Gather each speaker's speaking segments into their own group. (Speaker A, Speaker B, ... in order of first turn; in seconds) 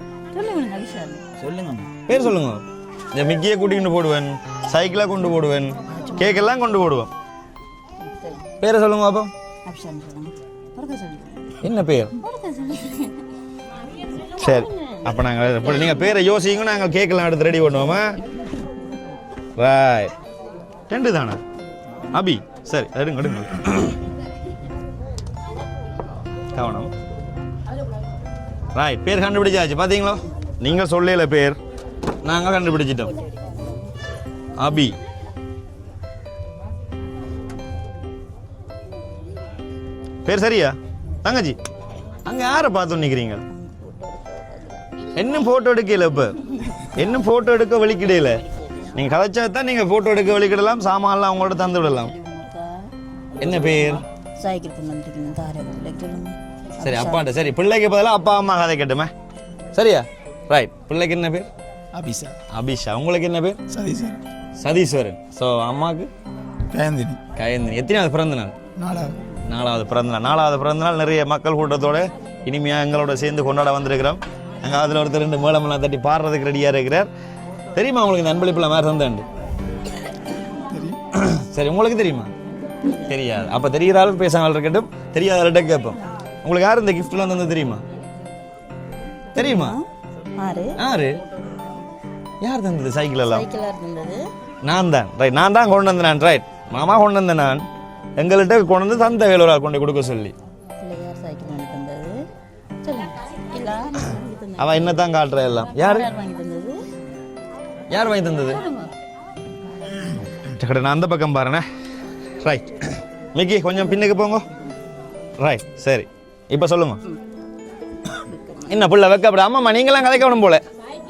Speaker A: 0.3-1.2, 5.9-6.3, 8.0-8.5, 9.7-11.7, 12.2-13.1, 14.4-15.0, 43.5-44.9, 51.6-52.9, 54.4-57.3, 82.8-83.2, 89.3-89.8, 90.4-90.8, 93.2-94.2, 100.8-102.2, 102.8-105.0, 105.7-106.8, 118.2-118.8
Speaker B: 1.4-1.9, 62.0-62.4, 63.7-64.2, 66.7-67.2, 68.8-69.2
Speaker C: 2.1-7.1, 8.6-9.3, 11.6-12.1, 14.3-18.1, 19.6-20.1, 20.9-21.4, 22.1-24.0, 26.5-26.9, 28.7-31.6, 32.2-33.1, 34.6-35.0, 40.2-41.6, 42.2-43.4, 45.1-52.1, 53.4-54.0, 56.8-59.1, 59.7-61.5, 62.5-63.6, 64.6-66.1, 67.3-68.6, 69.5-77.1, 77.7-79.3, 81.1-82.3, 83.1-87.8, 89.3-89.8, 90.8-91.2, 92.4-93.5, 94.6-97.6, 98.2-100.3, 104.6-106.1, 107.9-108.6, 110.4-111.6, 112.4-114.4, 115.4-117.0, 118.7-120.6